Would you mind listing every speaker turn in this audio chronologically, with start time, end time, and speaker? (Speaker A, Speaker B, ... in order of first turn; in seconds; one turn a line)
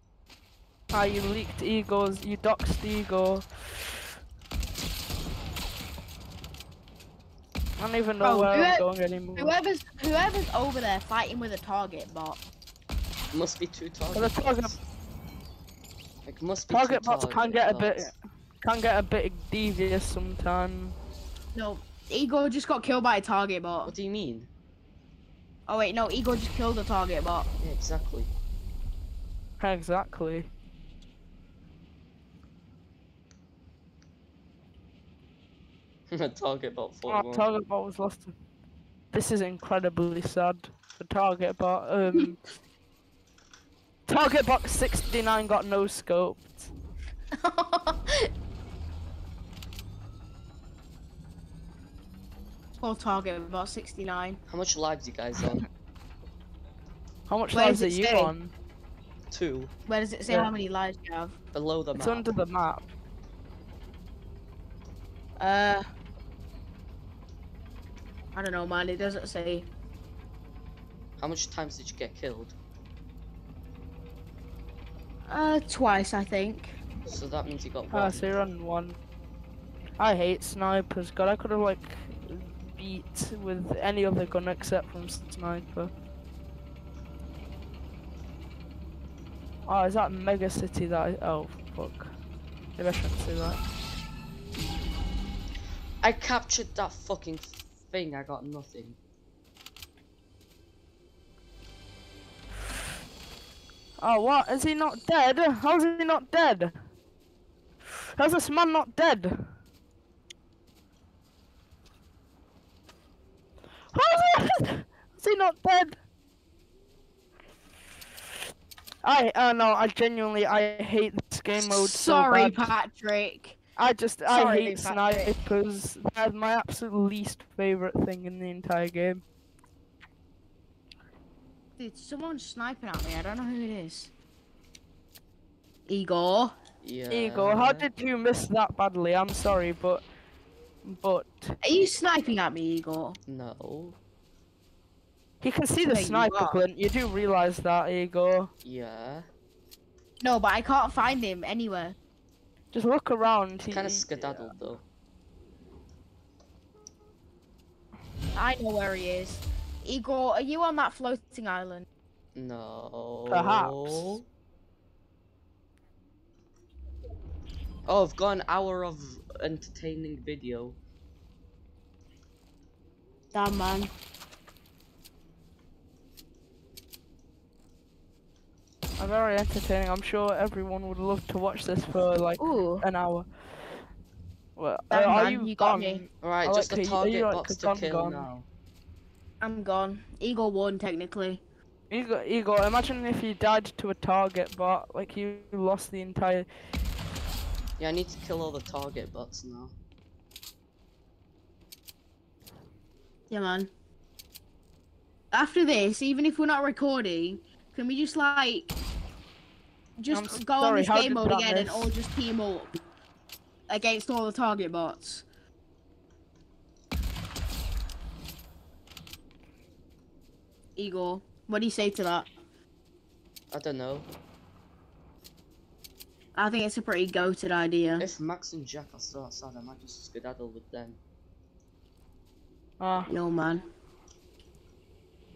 Speaker A: 0.9-4.0
Speaker A: 7.8-9.6
Speaker B: 8.2-8.8
Speaker B: 9.4-12.4
Speaker C: 13.3-14.8
Speaker A: 14.1-14.8
Speaker C: 16.3-18.1
Speaker A: 16.7-21.0
Speaker B: 21.6-23.9
Speaker C: 23.9-24.5
Speaker B: 25.7-27.5
Speaker C: 27.6-28.3
Speaker A: 29.6-30.5
Speaker C: 36.1-37.5
Speaker A: 37.1-38.3
Speaker A: 39.1-42.4
Speaker A: 44.1-46.7
Speaker B: 47.4-48.3
Speaker B: 52.8-54.4
Speaker C: 54.5-55.6
Speaker A: 57.3-58.5
Speaker B: 57.5-58.3
Speaker C: 59.3-59.7
Speaker B: 59.9-61.3
Speaker C: 61.5-62.4
Speaker A: 62.0-62.9
Speaker B: 65.4-65.8
Speaker B: 68.3-69.7
Speaker C: 71.2-72.6
Speaker B: 75.3-76.8
Speaker C: 77.1-78.5
Speaker A: 77.9-79.0
Speaker A: 80.0-85.9
Speaker A: 89.7-92.1
Speaker A: 92.8-93.6
Speaker C: 96.0-99.0
Speaker A: 104.0-106.8
Speaker A: 108.2-109.5
Speaker A: 113.9-116.0
Speaker A: 119.0-122.7
Speaker B: 121.6-123.6
Speaker A: 123.8-129.2
Speaker B: 124.3-125.4
Speaker B: 131.8-134.1
Speaker B: 135.9-136.5
Speaker C: 136.8-137.9
Speaker A: 137.1-140.0
Speaker A: 140.8-141.6
Speaker B: 141.6-143.2
Speaker C: 143.3-144.0
Speaker A: 145.4-148.5
Speaker B: 145.9-146.6
Speaker C: 148.6-149.3
Speaker B: 150.2-152.0
Speaker A: 152.7-154.6
Speaker C: 153.6-154.8
Speaker B: 158.3-161.9
Speaker C: 162.3-164.2
Speaker A: 163.3-164.1
Speaker C: 167.9-170.8
Speaker B: 173.3-173.9
Speaker A: 179.0-183.8
Speaker B: 182.4-182.9
Speaker A: 184.6-188.3
Speaker B: 184.9-186.0
Speaker C: 186.2-188.5
Speaker B: 189.4-191.4
Speaker A: 191.9-196.5
Speaker C: 197.8-199.7
Speaker B: 203.3-203.7
Speaker B: 205.3-208.8
Speaker B: 210.0-212.8
Speaker A: 210.1-211.9
Speaker B: 213.7-215.2
Speaker B: 220.8-222.3
Speaker C: 223.5-224.1
Speaker B: 226.3-228.1
Speaker C: 228.0-231.0
Speaker A: 232.8-233.1
Speaker B: 233.1-233.7